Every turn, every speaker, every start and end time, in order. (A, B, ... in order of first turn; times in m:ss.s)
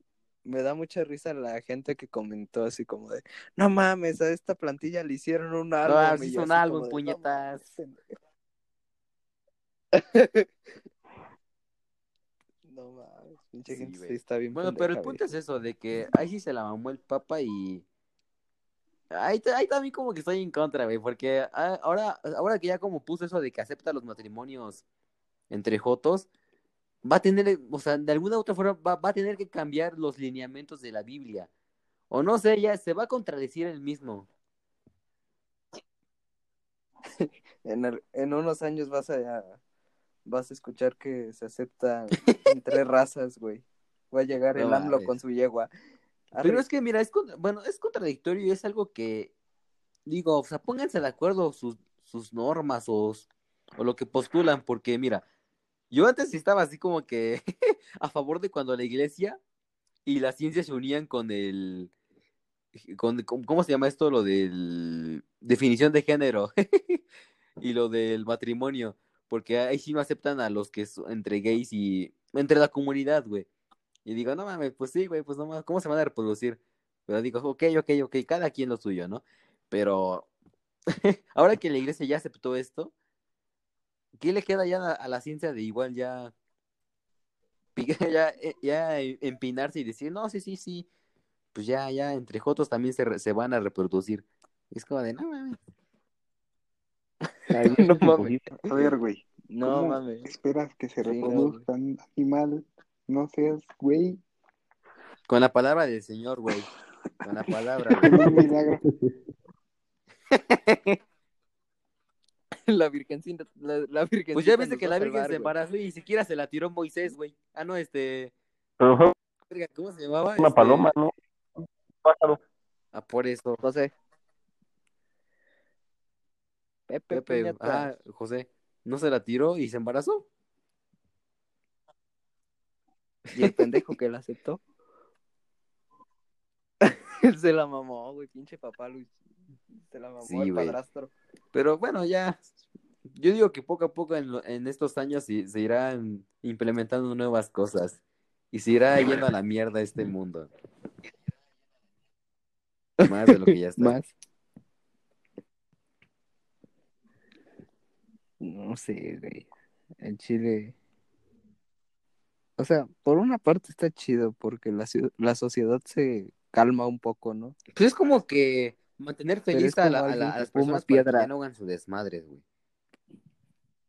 0:00.4-0:08.0 A
0:05.8-0:07.6 B
0:09.9-0:10.5 A
0:12.7-0:15.2 A
0:13.7-0:17.8 B
0:19.1-0:24.8 B
0:25.5-0:26.3 B
0:27.0-0:31.5 B
0:32.1-0:34.3 B
0:37.2-0:39.6 A
0:40.2-0:45.7 A
0:42.2-0:42.5 B
0:44.5-0:45.1 B
0:46.3-0:46.6 A
0:46.4-0:49.3 B
0:50.0-0:55.2 B
0:55.9-0:57.4 B
0:58.0-0:59.4 B
1:00.0-1:01.9 B
1:02.9-1:07.0 B
1:07.6-1:13.5 B
1:14.0-1:20.3 B
1:20.9-1:22.9 B
1:24.2-1:26.3 B
1:27.8-1:30.9 B
1:31.5-1:35.6 B
1:37.5-1:38.7 A
1:37.5-1:38.5 C
1:38.7-1:44.2 D
1:39.5-1:40.3 A
1:41.0-1:41.6 A
1:45.3-1:46.7 B
1:47.2-1:48.4 B
1:47.5-1:48.3 A
1:48.0-1:48.8 D
1:48.2-1:49.1 C
1:50.3-1:51.0 B
1:52.7-1:55.5 A
1:54.3-1:58.3 B
1:58.8-1:59.1 C
1:59.5-2:00.9 B
2:00.4-2:01.1 C
2:02.0-2:02.4 C
2:02.9-2:03.6 B
2:03.6-2:03.9 A
2:06.9-2:08.0 A
2:07.1-2:10.2 B
2:13.3-2:14.6 A
2:16.8-2:19.1 A
2:19.9-2:21.1 A
2:20.2-2:20.8 B
2:21.5-2:22.4 B
2:23.1-2:28.0 B
2:28.5-2:30.5 B
2:33.0-2:34.1 A
2:33.0-2:34.0 B
2:38.4-2:39.5 A
2:40.0-2:40.7 A
2:42.6-2:47.6 A
2:47.7-2:52.4 B
2:49.5-2:51.3 A